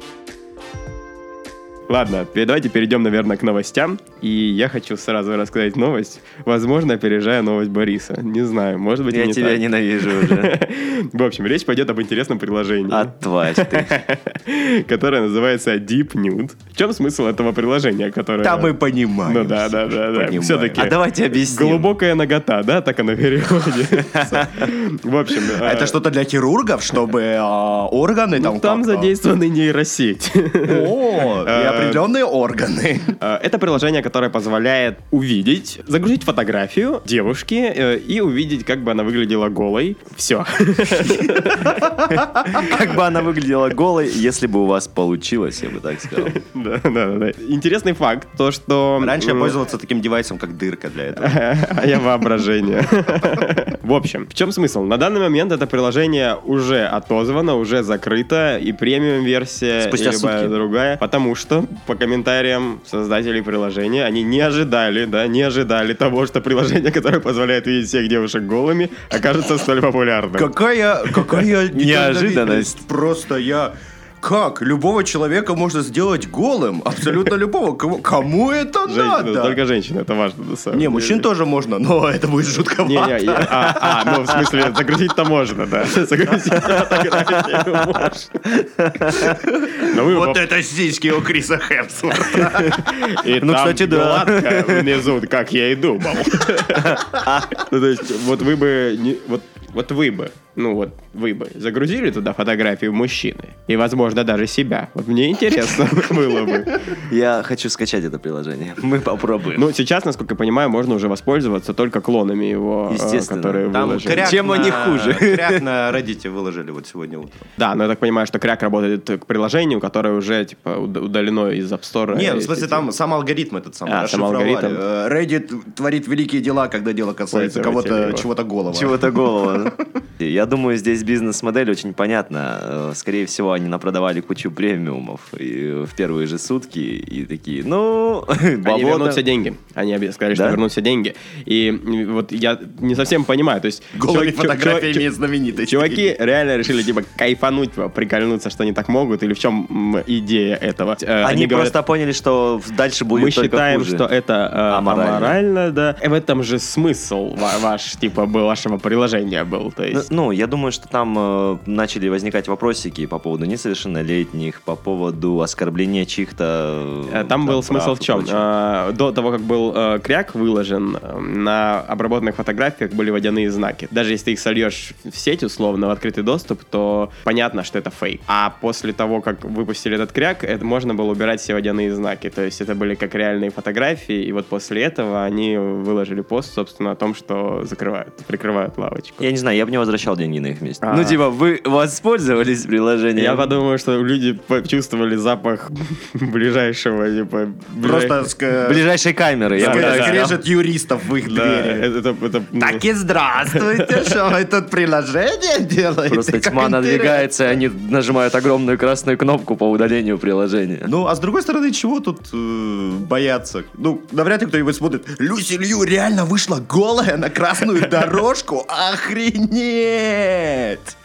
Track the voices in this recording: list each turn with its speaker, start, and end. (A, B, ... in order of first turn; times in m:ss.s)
0:01.9-0:18.7 A
0:09.1-0:10.6 B
0:12.9-0:14.0 B
0:18.4-0:20.9 C
0:19.2-0:26.0 A
0:20.8-0:21.9 B
0:23.9-0:24.7 B
0:25.6-0:29.1 C
0:28.3-0:32.0 A
0:30.6-0:33.2 C
0:33.2-0:41.9 A
0:42.1-0:46.4 B
0:46.2-0:49.6 A
0:49.0-0:51.4 C
0:51.2-1:10.5 A
0:59.8-1:00.5 B
1:10.4-1:19.6 C
1:11.7-1:12.8 B
1:18.8-1:21.2 A
1:20.7-1:24.3 C
1:22.8-1:28.6 A
1:28.8-1:29.4 B
1:29.3-1:32.8 C
1:29.7-1:30.4 A
1:32.4-1:46.8 A
1:33.3-1:35.0 B
1:36.8-1:37.5 B
1:46.9-1:49.7 B
1:49.5-1:54.3 A
1:52.9-1:55.6 B
1:53.7-1:57.5 C
1:57.6-2:02.9 A
2:02.1-2:09.8 C
2:03.8-2:04.8 A
2:07.3-2:08.3 A
2:08.7-2:19.2 B
2:18.6-2:31.8 A
2:20.3-2:20.6 B
2:23.9-2:26.1 C
2:31.2-2:34.0 B
2:33.1-2:40.0 A
2:34.7-2:35.4 B
2:39.9-2:48.4 B
2:47.1-3:09.2 A
3:09.2-3:13.5 B
3:10.8-3:11.2 A
3:13.2-3:18.2 A
3:17.8-3:18.8 C
3:18.6-3:20.4 B
3:19.5-3:21.8 C
3:19.6-3:20.2 A
3:21.2-3:22.8 A
3:22.6-3:27.6 C
3:23.5-3:24.0 A
3:26.1-3:30.9 B
3:30.8-3:41.0 C